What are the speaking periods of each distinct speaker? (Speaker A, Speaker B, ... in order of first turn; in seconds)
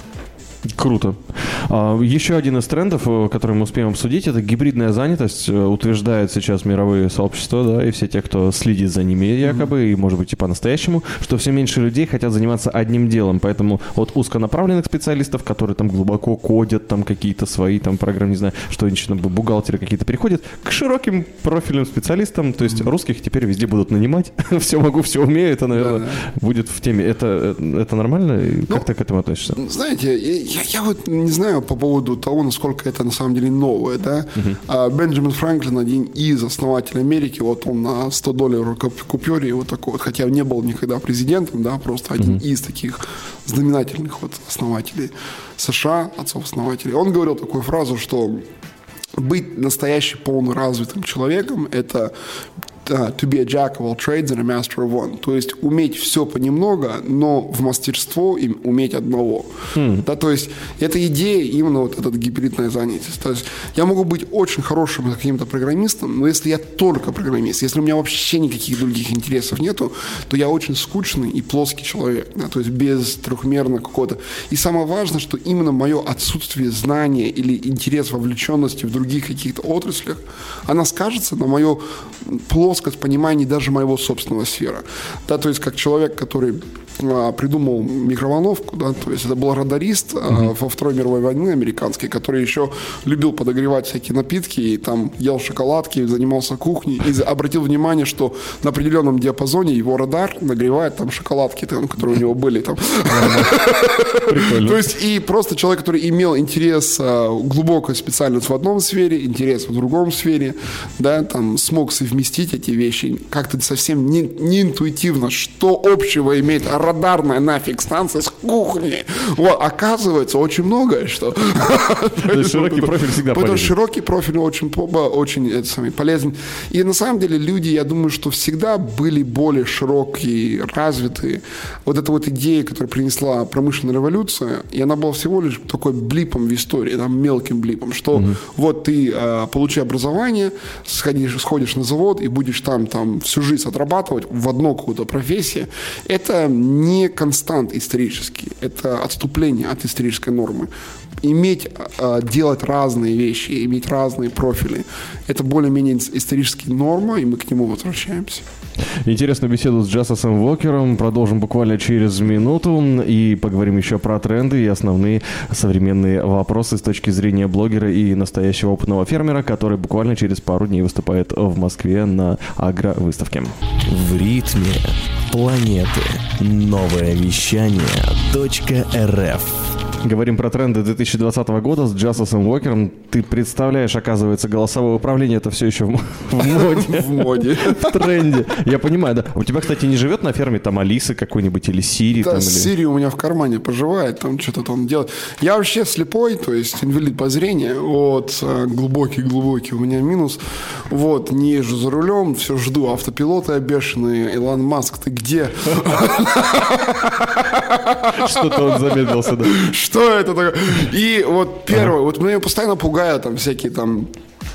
Speaker A: 0.7-29.6, 59.8-60.0, 103.1-104.8, 122.2-123.7, 158.9-173.6, 180.0-192.7, 208.1-209.6
Speaker B: 25.7-26.2, 29.5-48.4, 49.2-52.1, 52.9-150.7, 151.2-158.4, 186.4-188.1, 192.2-214.1
Speaker C: 173.9-179.7